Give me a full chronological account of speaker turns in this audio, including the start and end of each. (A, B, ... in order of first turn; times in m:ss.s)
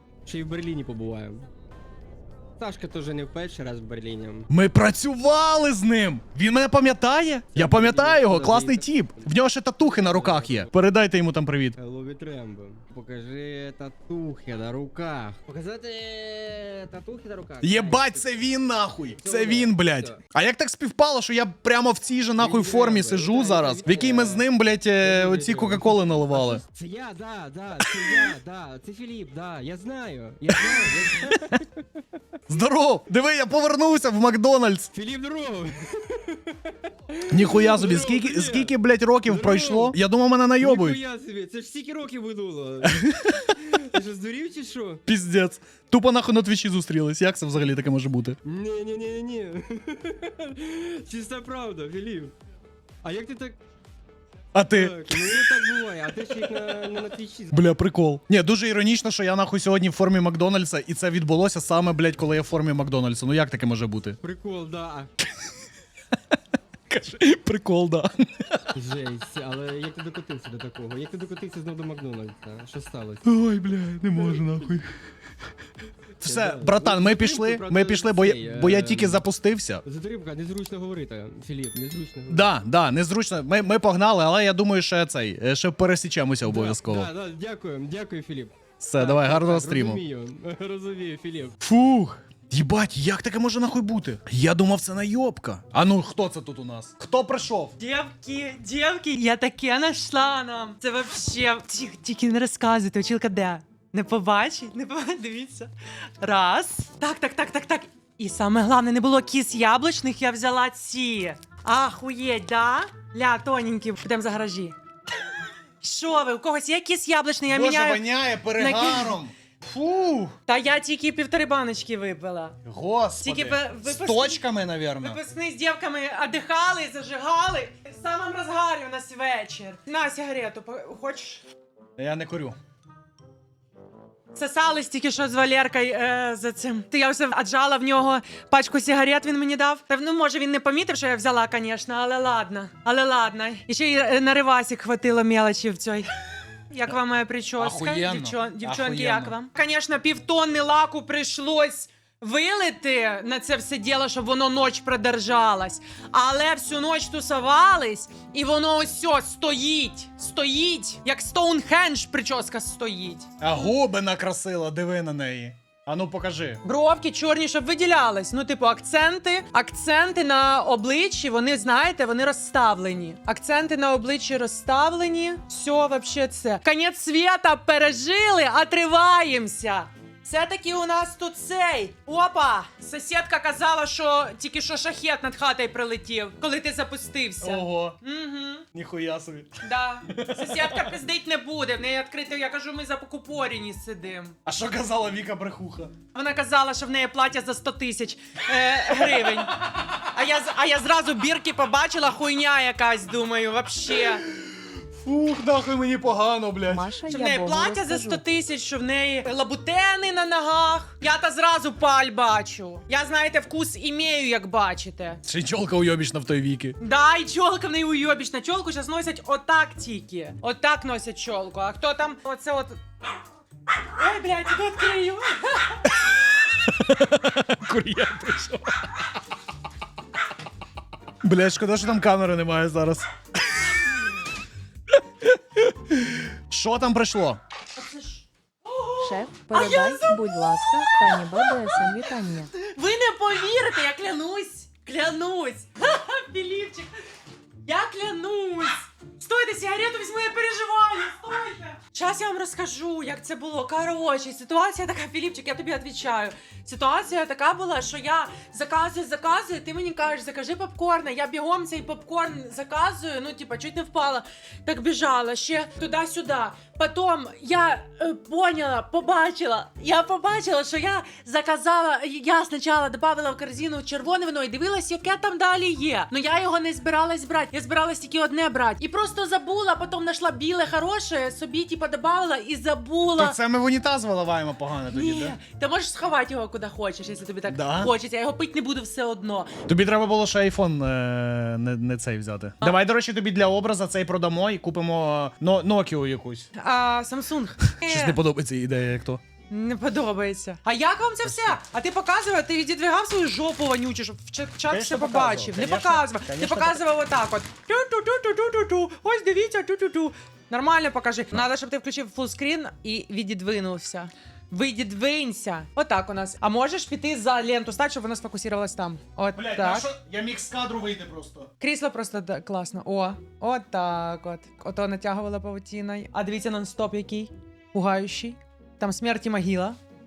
0:00.3-0:01.5 A
0:02.6-0:04.5 A
0:04.5-0:11.8 B
0:07.5-0:10.7 A
0:11.8-0:18.3 A
0:17.6-0:26.6 B
0:19.2-0:20.2 A
0:22.4-0:24.5 A
0:25.0-0:31.8 A
0:27.8-0:28.3 B
0:30.5-0:31.6 B
0:32.5-0:34.9 B
0:34.9-0:40.0 A
0:37.3-0:41.0 B
0:40.6-0:43.0 A
0:42.8-0:43.6 B
0:43.5-0:45.0 A
0:45.1-0:48.4 B
0:48.4-0:52.3 A
0:53.0-0:53.6 A
0:54.6-0:55.6 B
0:54.7-0:57.6 A
0:57.5-1:04.2 B
1:04.2-1:05.1 A
1:06.9-1:08.6 B
1:08.7-1:13.2 A
1:13.2-1:14.9 B
1:16.2-1:19.3 A
1:16.2-1:19.8 B
1:19.8-1:22.5 A
1:22.3-1:27.1 B
1:26.4-1:31.6 A
1:28.8-1:30.0 B
1:31.6-1:37.8 B
1:37.8-1:54.8 C
1:55.8-1:59.2 C
1:57.5-2:00.4 B
2:00.5-2:02.6 C
2:02.6-2:05.2 B
2:03.2-2:04.4 C
2:05.0-2:11.4 C
2:12.0-2:12.6 B
2:14.3-2:26.1 C
2:26.7-2:43.5 C
2:27.6-2:29.4 B
2:43.4-2:46.6 B
2:46.6-3:08.6 C
3:07.4-3:08.0 B
3:08.7-3:09.6 B
3:09.6-3:14.4 C
3:10.1-3:10.9 B
3:14.4-3:15.9 B
3:16.1-3:24.2 C
3:24.4-3:26.9 B
3:26.7-3:28.2 D
3:27.1-3:35.2 C
3:35.2-3:36.8 B
3:36.8-3:42.8 C
3:44.0-3:45.8 C
3:46.5-3:48.9 B
3:51.2-3:53.1 B
3:55.2-3:57.4 B
3:57.8-4:06.9 C
3:59.0-4:02.5 D
4:07.7-4:43.4 C
4:43.2-4:45.4 B
4:44.9-4:49.5 C
4:47.5-4:47.9 B
4:49.7-4:56.5 B
4:56.6-4:58.2 C
4:57.7-4:59.2 B
4:59.5-5:19.9 C
5:01.2-5:01.6 B
5:04.7-5:06.8 B
5:19.4-5:21.5 B
5:21.6-5:29.8 C